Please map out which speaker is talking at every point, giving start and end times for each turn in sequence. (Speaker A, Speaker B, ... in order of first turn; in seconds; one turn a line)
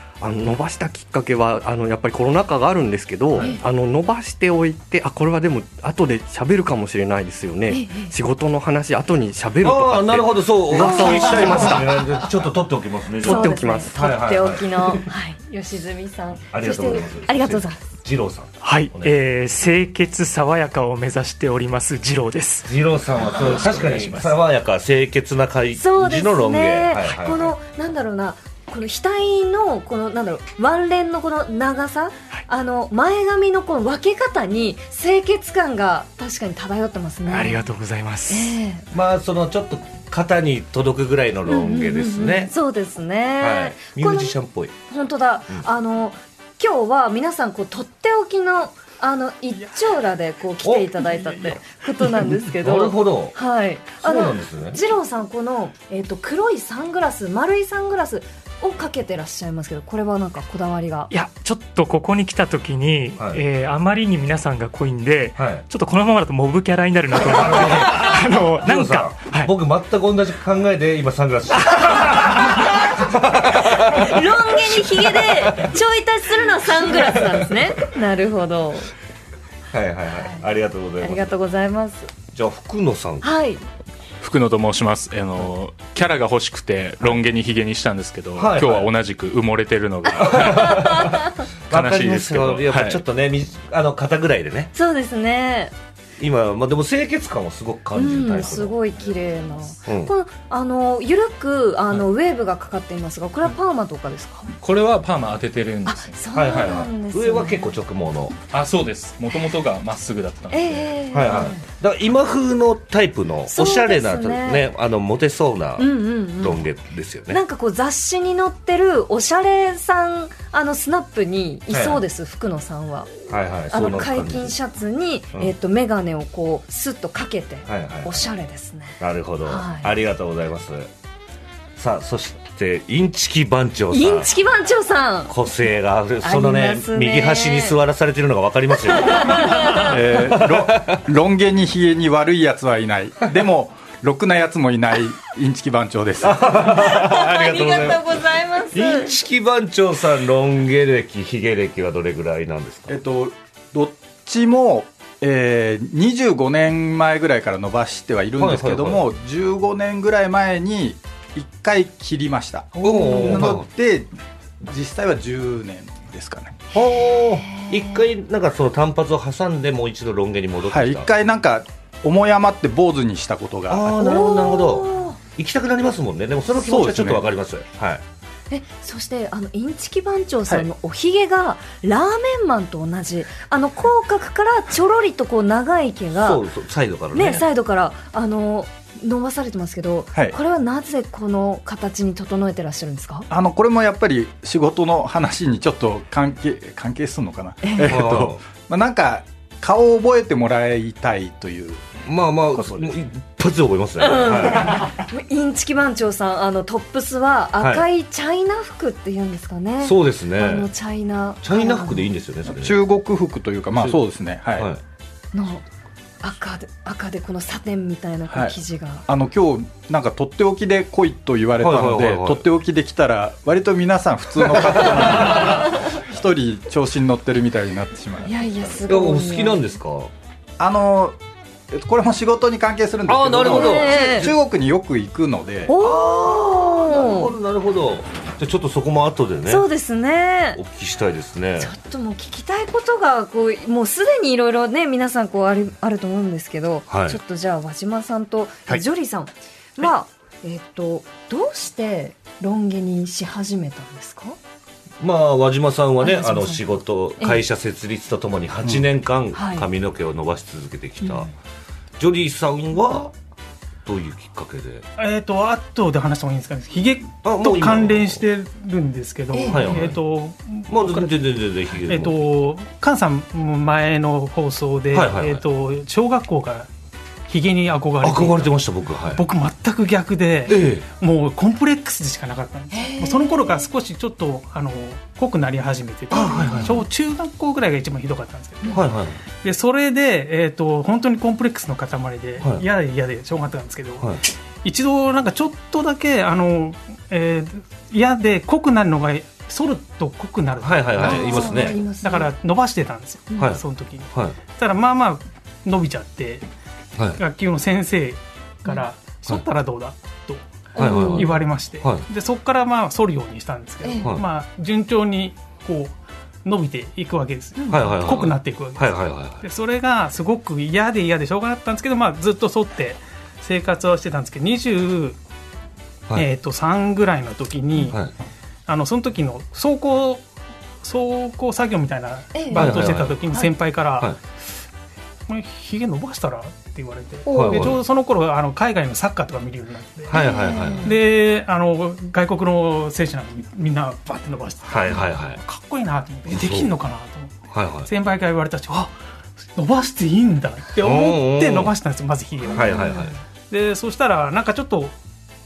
Speaker A: 0.2-12.3
Speaker B: 7.7-8.1
Speaker C: 9.6-15.0
Speaker B: 10.8-11.7
Speaker A: 13.2-14.0
Speaker B: 13.2-17.8
Speaker C: 16.5-19.1
Speaker D: 18.6-24.4
Speaker C: 22.7-27.5
Speaker B: 25.8-37.6
Speaker D: 37.3-38.6
Speaker B: 38.3-38.9
Speaker C: 38.9-42.5
Speaker B: 41.5-44.4
Speaker C: 43.4-44.7
Speaker B: 44.9-61.1
Speaker C: 50.6-51.5
Speaker C: 52.0-53.4
Speaker C: 54.0-54.8
Speaker D: 61.1-69.5
Speaker C: 63.2-63.4
Speaker C: 65.4-65.7
Speaker C: 67.2-75.7
Speaker B: 73.6-78.9
Speaker C: 76.9-77.5
Speaker C: 79.7-81.3
Speaker B: 81.0-82.1
Speaker C: 82.3-83.3
Speaker B: 83.2-83.6
Speaker E: 84.2-93.0
Speaker C: 88.4-88.9
Speaker C: 90.2-94.7
Speaker B: 90.9-91.3
Speaker B: 94.7-95.7
Speaker C: 96.2-98.8
Speaker B: 98.0-104.5
Speaker C: 99.9-100.1
Speaker E: 104.6-106.2
Speaker B: 105.8-107.8
Speaker C: 106.3-108.4
Speaker E: 108.5-111.0
Speaker B: 110.5-111.6
Speaker C: 111.1-117.4
Speaker B: 113.5-114.7
Speaker B: 115.8-116.7
Speaker B: 117.3-123.1
Speaker C: 121.7-122.0
Speaker C: 123.3-124.5
Speaker B: 123.7-129.9
Speaker C: 127.7-128.2
Speaker C: 129.0-130.9
Speaker C: 131.8-134.3
Speaker B: 133.9-135.3
Speaker C: 135.3-141.0
Speaker B: 136.2-137.8
Speaker B: 138.9-139.9
Speaker F: 139.8-146.7
Speaker C: 146.2-148.2
Speaker B: 146.7-149.1
Speaker C: 148.7-153.0
Speaker F: 152.9-164.1
Speaker C: 158.4-159.0
Speaker C: 162.8-163.7
Speaker F: 164.6-166.6
Speaker C: 166.7-171.1
Speaker B: 167.1-167.9
Speaker F: 170.6-174.1
Speaker C: 173.7-178.0
Speaker B: 174.0-175.2
Speaker F: 176.6-177.3
Speaker B: 178.5-186.4
Speaker C: 186.2-187.4
Speaker B: 187.1-193.3
Speaker F: 193.3-202.0
Speaker B: 197.6-197.9
Speaker C: 197.8-198.4
Speaker C: 202.1-204.8
Speaker F: 202.5-202.9
Speaker B: 204.0-212.1
Speaker C: 207.6-207.8
Speaker C: 209.8-210.7
Speaker C: 211.4-212.8
Speaker F: 212.5-214.7
Speaker C: 214.6-214.8
Speaker B: 215.3-215.7
Speaker B: 216.2-219.1
Speaker F: 218.3-228.4
Speaker C: 221.6-222.4
Speaker B: 228.2-229.6
Speaker C: 228.9-230.1
Speaker F: 230.6-231.2
Speaker F: 231.7-235.7
Speaker C: 233.1-234.3
Speaker B: 233.4-234.3
Speaker B: 235.7-237.3
Speaker C: 235.8-239.7
Speaker B: 239.5-240.6
Speaker C: 240.6-241.7
Speaker B: 241.6-254.4
Speaker C: 246.9-247.2
Speaker C: 255.0-261.3
Speaker B: 256.0-256.6
Speaker B: 259.3-259.7
Speaker C: 262.0-263.1
Speaker C: 263.9-264.9
Speaker G: 265.0-271.1
Speaker C: 267.2-268.2
Speaker B: 269.3-269.8
Speaker C: 269.5-270.0
Speaker C: 270.7-272.2
Speaker G: 271.9-276.7
Speaker C: 274.9-275.4
Speaker G: 277.3-278.6
Speaker C: 278.0-279.2
Speaker G: 279.1-288.8
Speaker C: 280.5-280.9
Speaker B: 282.7-283.7
Speaker B: 286.1-286.8
Speaker C: 286.1-286.9
Speaker C: 288.7-289.2
Speaker G: 289.4-306.5
Speaker C: 292.4-292.6
Speaker C: 300.6-301.8
Speaker B: 301.0-302.3
Speaker C: 303.4-304.4
Speaker G: 307.2-325.2
Speaker B: 310.8-311.4
Speaker C: 310.8-312.1
Speaker B: 313.8-314.1
Speaker C: 317.7-319.4
Speaker G: 326.1-328.0
Speaker G: 328.7-330.2
Speaker G: 330.8-334.1
Speaker B: 332.3-333.5
Speaker C: 332.5-333.2
Speaker G: 335.3-340.3
Speaker B: 337.3-337.7
Speaker C: 337.3-337.8
Speaker C: 340.1-340.9
Speaker B: 340.1-341.0
Speaker G: 340.8-347.3
Speaker C: 344.7-345.4
Speaker C: 346.3-346.7
Speaker C: 347.5-347.9
Speaker G: 347.9-348.9
Speaker G: 349.6-355.0
Speaker C: 350.8-351.7
Speaker B: 352.5-353.1
Speaker C: 352.5-353.1